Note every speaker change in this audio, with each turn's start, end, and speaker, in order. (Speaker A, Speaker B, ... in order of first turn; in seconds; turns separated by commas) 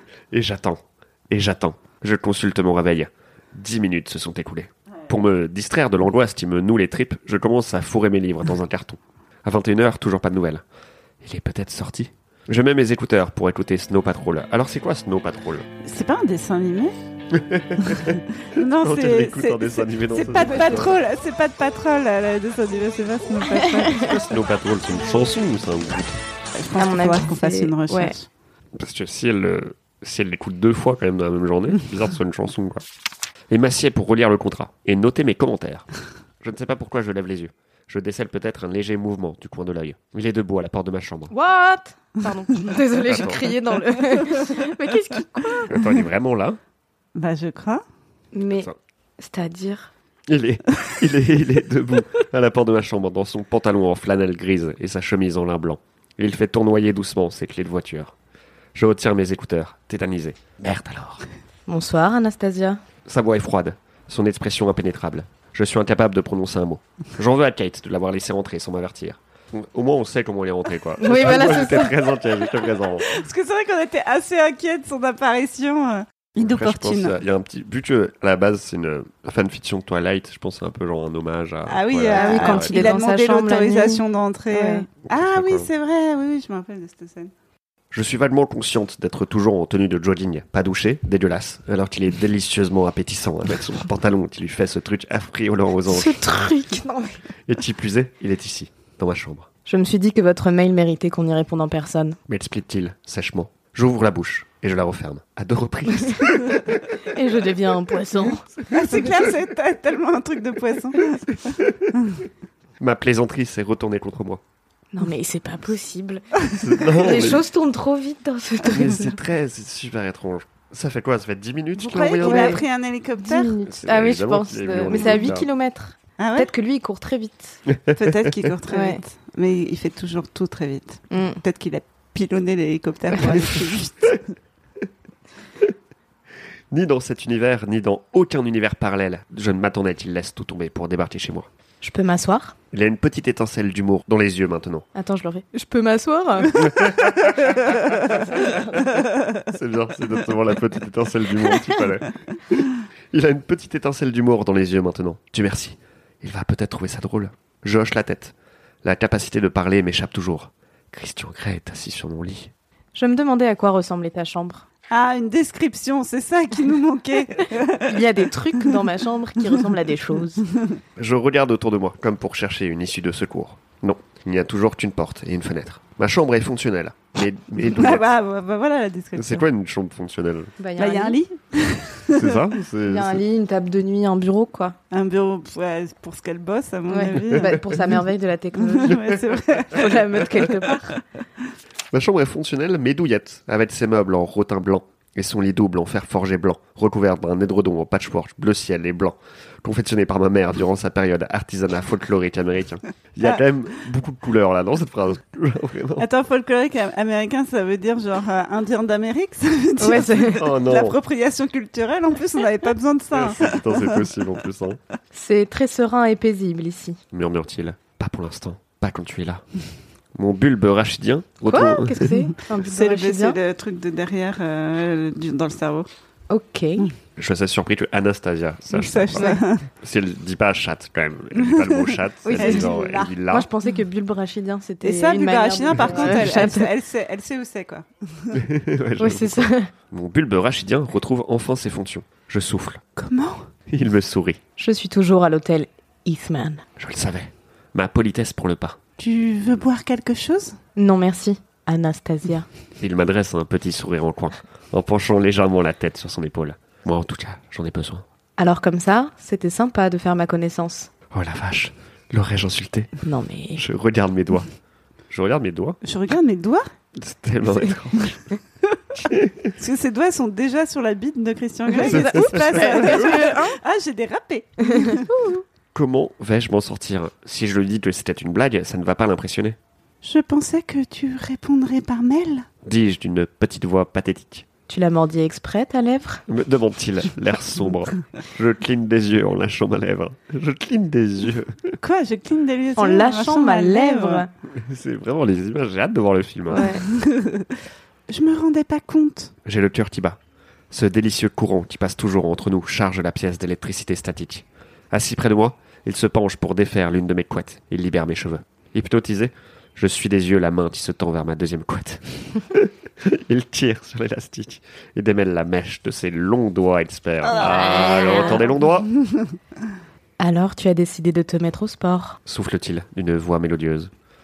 Speaker A: 0.3-10.6, Speaker A: 11.2-15.7, Speaker B: 15.8-16.9, Speaker A: 17.3-20.9, Speaker B: 17.8-24.2, Speaker C: 23.5-24.2, Speaker A: 23.9-26.2, Speaker B: 26.5-28.3, Speaker C: 26.8-28.1, Speaker A: 28.7-32.8, Speaker A: 33.5-35.9, Speaker A: 36.4-41.3, Speaker C: 41.3-45.9, Speaker A: 43.0-43.5, Speaker A: 45.7-46.6, Speaker B: 47.1-47.8, Speaker C: 48.3-49.9, Speaker A: 50.3-58.1, Speaker A: 58.7-61.2, Speaker C: 61.7-62.8, Speaker A: 63.0-73.1, Speaker C: 71.0-72.1, Speaker B: 73.1-77.2, Speaker A: 76.4-82.8, Speaker B: 81.7-87.3, Speaker C: 82.1-84.8, Speaker A: 85.0-85.7, Speaker A: 87.9-96.3, Speaker C: 95.8-97.2, Speaker A: 97.5-99.5, Speaker C: 99.7-102.2, Speaker A: 102.3-106.8, Speaker C: 106.0-106.3, Speaker C: 107.0-108.5, Speaker B: 108.7-111.4, Speaker A: 112.8-114.4, Speaker C: 114.9-119.2, Speaker A: 116.5-117.4, Speaker A: 118.7-122.6, Speaker B: 121.8-123.5, Speaker C: 121.9-122.7, Speaker C: 123.2-127.6, Speaker A: 123.6-125.5, Speaker B: 126.2-126.5, Speaker A: 127.7-128.3, Speaker B: 127.9-134.3, Speaker C: 128.7-129.0, Speaker C: 131.1-131.4, Speaker A: 136.7-141.5, Speaker C: 141.8-142.6, Speaker A: 142.7-144.9, Speaker C: 144.9-146.9, Speaker A: 146.6-162.5, Speaker C: 162.9-164.6, Speaker B: 164.9-168.1, Speaker C: 167.7-170.4, Speaker A: 171.0-178.1, Speaker B: 177.6-179.4, Speaker A: 179.2-180.5, Speaker C: 180.6-181.2, Speaker B: 180.8-182.4, Speaker A: 182.1-183.2, Speaker C: 182.8-184.8, Speaker B: 184.9-187.9, Speaker C: 186.9-189.2, Speaker B: 188.5-190.5, Speaker C: 189.7-191.0, Speaker A: 191.9-206.1, Speaker B: 206.0-214.1, Speaker C: 209.8-210.5, Speaker A: 210.2-210.9, Speaker A: 213.1-214.8, Speaker C: 215.1-217.0, Speaker A: 217.1-219.4, Speaker A: 220.1-222.1, Speaker C: 221.4-223.4, Speaker B: 222.6-225.9, Speaker C: 226.3-226.9, Speaker A: 227.2-233.5, Speaker B: 228.7-229.6, Speaker C: 229.2-229.4, Speaker B: 231.5-233.2, Speaker C: 232.2-236.7, Speaker B: 234.8-238.4, Speaker A: 238.3-242.8, Speaker C: 239.0-239.7, Speaker B: 243.0-243.4, Speaker A: 243.7-244.4, Speaker C: 244.6-246.6, Speaker A: 246.8-248.8, Speaker B: 249.0-250.6, Speaker C: 250.8-252.5, Speaker A: 252.8-258.0, Speaker C: 258.4-260.9, Speaker A: 261.1-262.9, Speaker C: 263.0-263.6, Speaker A: 263.6-264.5, Speaker A: 265.1-265.8, Speaker B: 265.8-266.7, Speaker A: 266.9-268.3, Speaker A: 268.9-269.5, Speaker B: 269.6-275.1, Speaker C: 271.7-273.6, Speaker A: 271.8-273.2, Speaker C: 274.6-275.2, Speaker A: 275.7-279.6, Speaker B: 280.0-282.5, Speaker A: 282.6-284.4, Speaker C: 284.7-286.2, Speaker A: 286.3-291.7, Speaker B: 291.8-294.2, Speaker C: 292.8-294.3, Speaker A: 294.5-296.6, Speaker C: 296.5-296.8, Speaker B: 296.6-297.5, Speaker B: 298.1-299.3, Speaker A: 299.4-300.2, Speaker A: 300.7-318.9, Speaker B: 317.3-318.4, Speaker C: 317.4-318.5, Speaker C: 320.2-322.2, Speaker A: 322.2-323.9